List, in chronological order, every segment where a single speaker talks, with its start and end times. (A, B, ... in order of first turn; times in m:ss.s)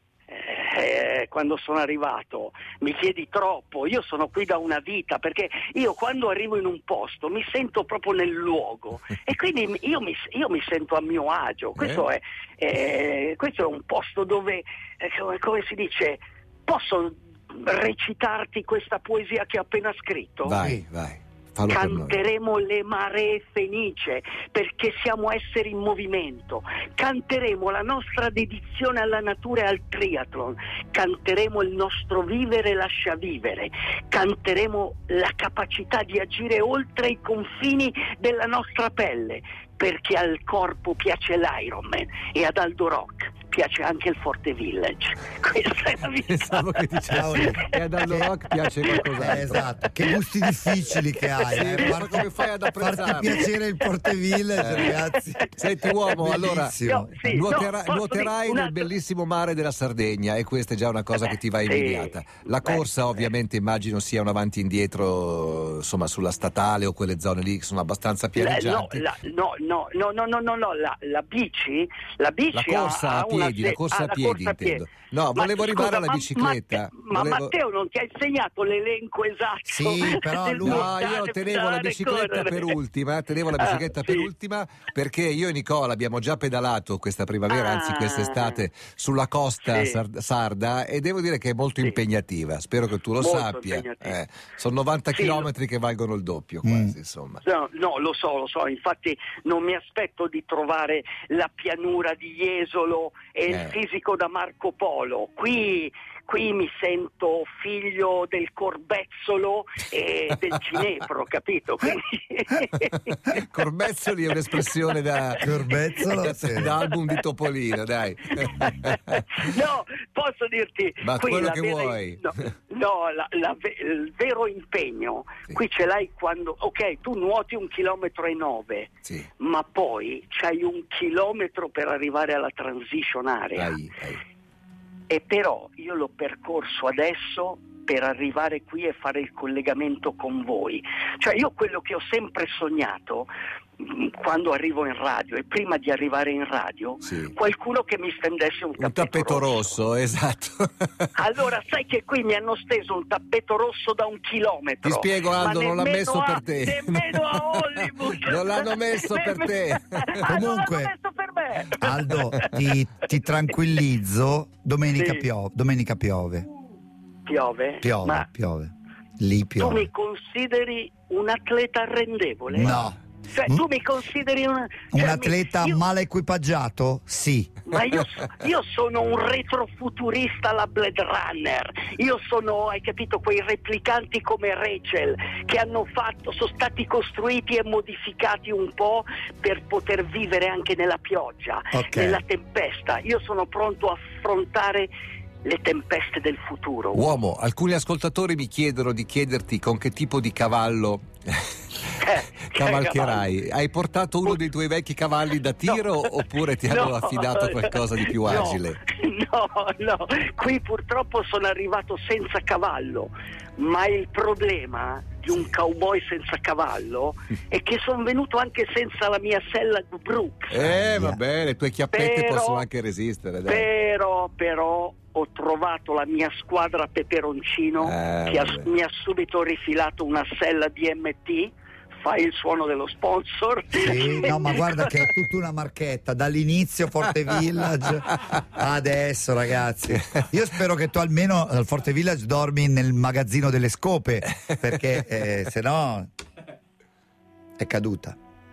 0:00.3-0:20.6 A
0:11.8-0:12.0 B
0:20.4-0:22.2 B
0:21.7-0:46.8 A
0:46.2-0:49.7 B
0:47.1-0:48.3 C
0:47.3-0:47.8 A
0:49.1-0:55.5 C
0:51.4-0:52.3 A
0:51.5-0:53.4 B
0:53.3-0:54.1 A
0:54.6-0:55.0 B
0:54.8-0:56.1 A
0:55.6-0:56.8 B
0:56.1-0:57.4 C
0:56.8-0:58.9 A
0:57.3-1:09.0 B
1:01.2-1:02.8 A
1:08.3-1:22.8 A
1:12.5-1:17.5 B
1:19.6-1:20.9 C
1:20.6-1:37.4 B
1:23.5-1:24.3 A
1:27.5-1:28.6 A
1:29.6-1:30.0 A
1:33.2-1:34.2 A
1:35.1-1:35.5 A
1:36.6-1:36.9 C
1:37.4-1:53.4 A
1:43.5-1:43.8 B
1:53.1-1:59.4 B
1:54.5-1:54.8 A
1:55.4-1:56.8 C
1:58.3-2:13.8 A
2:01.0-2:02.3 B
2:13.6-2:14.2 B
2:15.1-2:29.8 A
2:27.0-2:27.3 B
2:28.8-2:31.1 B
2:31.1-2:42.6 A
2:34.8-2:40.5 B
2:40.2-2:40.9 C
2:41.8-2:46.5 C
2:44.9-2:45.3 A
2:47.2-2:48.3 A
2:47.8-2:49.9 C
2:49.6-2:55.8 A
2:52.5-2:53.6 C
2:54.9-2:57.6 C
2:57.7-3:14.9 A
3:11.7-3:12.2 C
3:15.4-3:17.0 A
3:16.9-3:28.8 B
3:22.0-3:23.2 A
3:25.6-3:26.0 A
3:26.7-3:40.6 A
3:40.5-3:43.6 B
3:40.6-3:41.2 C
3:41.9-3:42.6 A
3:43.4-3:55.0 A
3:47.8-3:48.7 B
3:53.7-4:06.1 C
4:07.6-4:08.2 C